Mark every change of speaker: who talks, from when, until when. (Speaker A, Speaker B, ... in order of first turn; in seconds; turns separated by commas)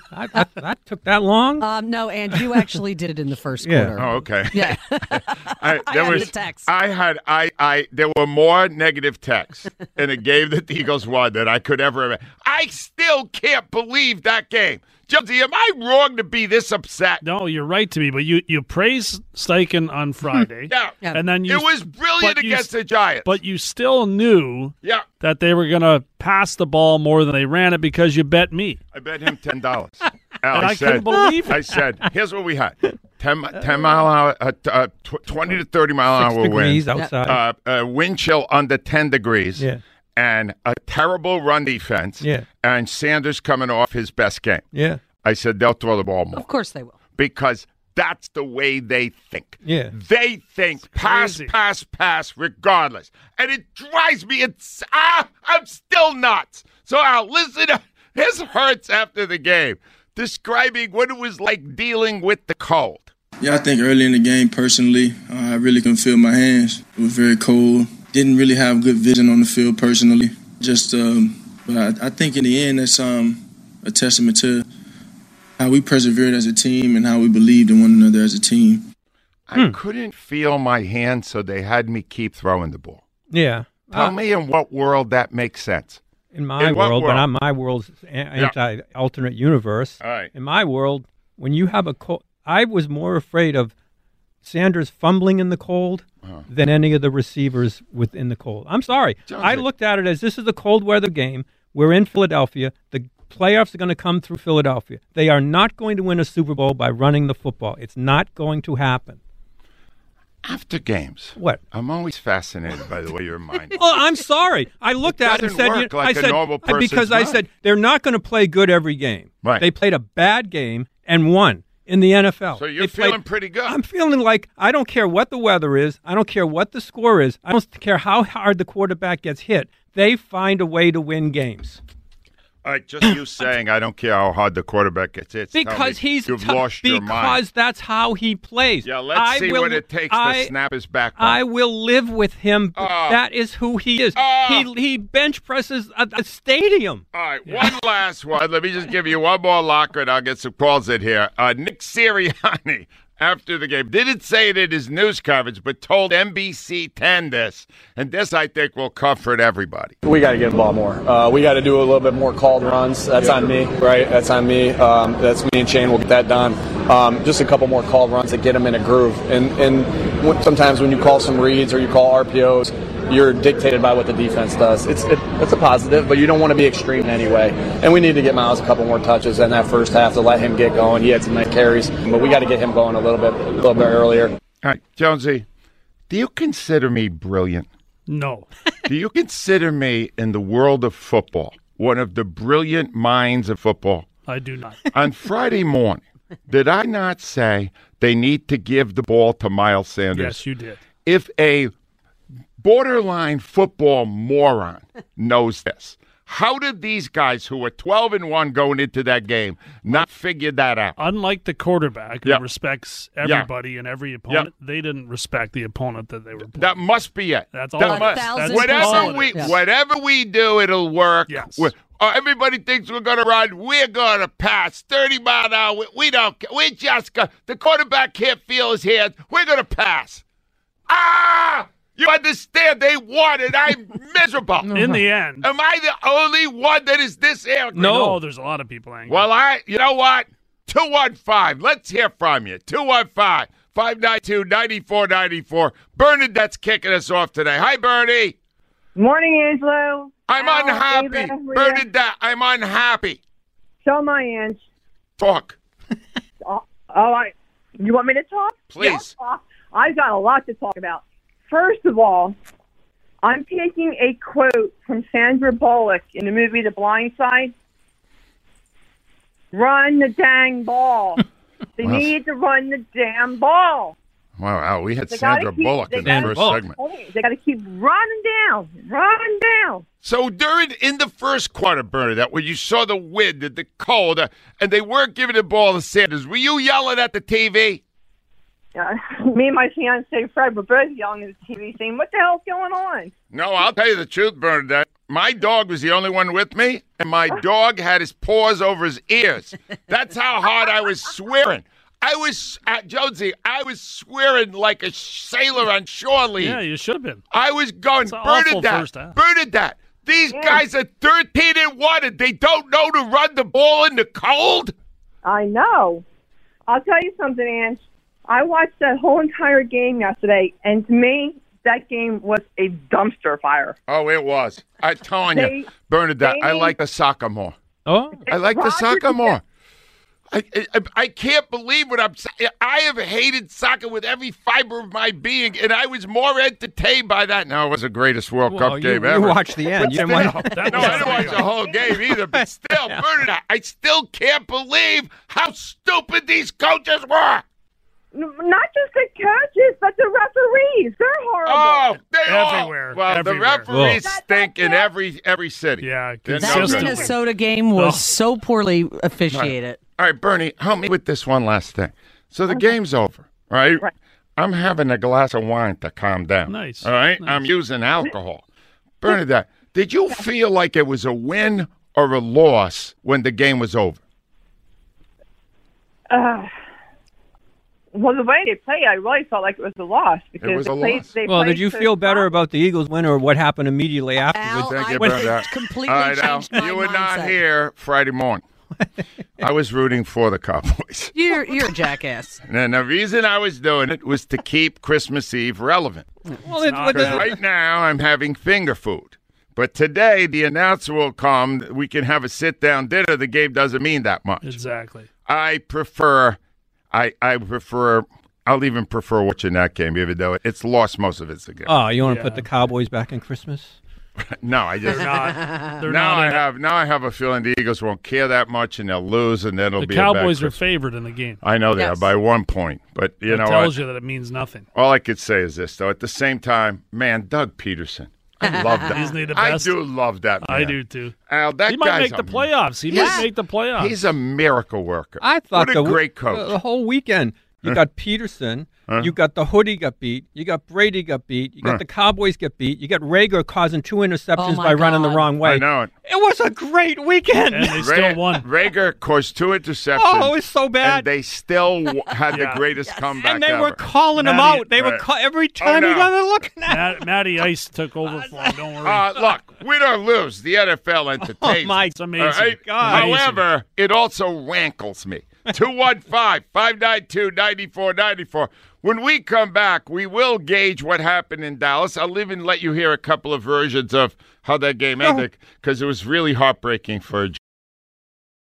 Speaker A: 0.1-1.6, Speaker B: 1.6-6.7, Speaker A: 3.6-4.0, Speaker C: 4.0-17.2, Speaker D: 17.2-22.7, Speaker C: 20.7-23.3, Speaker D: 23.2-28.8, Speaker C: 28.9-44.6, Speaker D: 30.5-31.8, Speaker A: 31.1-31.6, Speaker A: 36.1-37.4, Speaker B: 36.9-37.2, Speaker A: 42.2-42.5, Speaker A: 44.7-45.0, Speaker C: 45.2-46.5, Speaker B: 46.3-47.0, Speaker C: 47.1-63.1, Speaker A: 49.6-49.9, Speaker D: 50.9-51.5, Speaker E: 63.4-74.7, Speaker E: 75.6-78.9, Speaker C: 79.5-83.0, Speaker A: 83.3-84.2, Speaker C: 83.9-86.0, Speaker A: 86.3-93.7, Speaker C: 86.6-87.2, Speaker C: 90.0-90.3, Speaker A: 94.4-109.2, Speaker C: 99.3-99.6, Speaker C: 110.4-113.9, Speaker A: 113.8-131.8, Speaker C: 115.0-117.4, Speaker C: 122.5-123.8, Speaker C: 132.6-137.4, Speaker A: 135.5-140.5, Speaker C: 138.8-141.4, Speaker A: 141.2-147.0, Speaker C: 142.8-143.2, Speaker C: 144.1-144.7, Speaker C: 147.1-159.9, Speaker F: 160.0-184.3, Speaker C: 184.6-185.4, Speaker C: 186.1-187.7, Speaker D: 188.1-188.5, Speaker C: 188.8-194.1, Speaker D: 194.3-194.9, Speaker C: 194.9-200.4, Speaker D: 200.1-200.8, Speaker C: 201.0-201.7, Speaker C: 202.6-211.0, Speaker D: 211.0-216.8, Speaker C: 213.2-213.5, Speaker C: 216.5-230.2, Speaker D: 217.5-219.6, Speaker B: 217.8-219.5, Speaker D: 221.3-221.7, Speaker C: 230.9-234.7, Speaker A: 234.6-235.0, Speaker D: 234.7-235.5, Speaker C: 235.4-237.9, Speaker D: 237.7-239.2, Speaker A: 237.8-238.2, Speaker C: 239.1-248.3, Speaker G: 248.9-251.8, Speaker C: 250.3-253.2, Speaker G: 253.8-254.6, Speaker C: 255.2-255.6, Speaker G: 256.4-262.4, Speaker C: 258.7-259.1, Speaker G: 263.2-267.5, Speaker G: 269.5-271.2, Speaker G: 271.8-273.9, Speaker C: 271.8-272.1, Speaker C: 274.4-276.7, Speaker G: 275.1-279.8, Speaker A: 276.0-276.6, Speaker C: 280.0-287.8, Speaker G: 288.8-293.1, Speaker C: 293.3-306.6, Speaker D: 306.4-307.2, Speaker C: 307.3-314.7, Speaker D: 308.1-309.2, Speaker G: 310.3-310.6, Speaker G: 315.2-316.0, Speaker G: 316.7-323.8, Speaker C: 323.9-327.6, Speaker G: 325.3-325.7, Speaker G: 326.2-326.7, Speaker A: 327.9-328.1, Speaker G: 328.2-329.4, Speaker C: 328.3-329.4, Speaker C: 330.3-347.4, Speaker A: 338.5-343.0, Speaker D: 340.1-341.5, Speaker G: 348.1-351.9, Speaker C: 351.4-357.1, Speaker D: 352.2-353.7, Speaker A: 353.7-354.0, Speaker G: 354.0-354.9, Speaker D: 355.8-358.1, Speaker B: 356.4-359.8, Speaker C: 359.3-363.8, Speaker C: 364.4-368.4, Speaker D: 366.5-367.4, Speaker C: 369.0-374.0, Speaker G: 376.1-376.5, Speaker G: 377.9-382.3, Speaker C: 380.4-381.1, Speaker A: 381.3-385.5, Speaker B: 384.3-387.4, Speaker C: 384.4-388.4, Speaker C: 389.4-391.1, Speaker B: 391.1-392.4, Speaker C: 392.4-396.1, Speaker A: 396.4-397.4, Speaker D: 396.5-397.3, Speaker C: 396.9-404.6, Speaker D: 404.4-405.1, Speaker C: 405.2-406.4, Speaker C: 406.9-411.7, Speaker A: 411.6-413.8, Speaker D: 412.0-412.4, Speaker C: 414.2-420.6, Speaker D: 414.8-416.4, Speaker D: 419.8-421.4, Speaker C: 421.4-423.8, Speaker B: 421.8-422.1, Speaker D: 423.3-424.7, Speaker C: 424.7-430.7, Speaker B: 428.4-428.9, Speaker D: 428.9-429.8, Speaker D: 430.4-431.1, Speaker C: 431.3-436.5, Speaker D: 431.6-433.9, Speaker A: 435.2-447.9, Speaker C: 438.9-439.1, Speaker B: 444.4-445.3, Speaker C: 445.4-445.9, Speaker D: 447.5-448.4, Speaker C: 447.8-453.8, Speaker A: 449.9-451.0, Speaker D: 452.3-452.6, Speaker B: 452.9-453.2, Speaker A: 453.2-457.0, Speaker D: 454.2-454.6, Speaker C: 454.4-455.0, Speaker C: 455.6-456.1, Speaker D: 456.7-459.1, Speaker A: 458.2-458.5, Speaker C: 458.8-477.4, Speaker A: 461.2-463.2, Speaker D: 461.9-463.4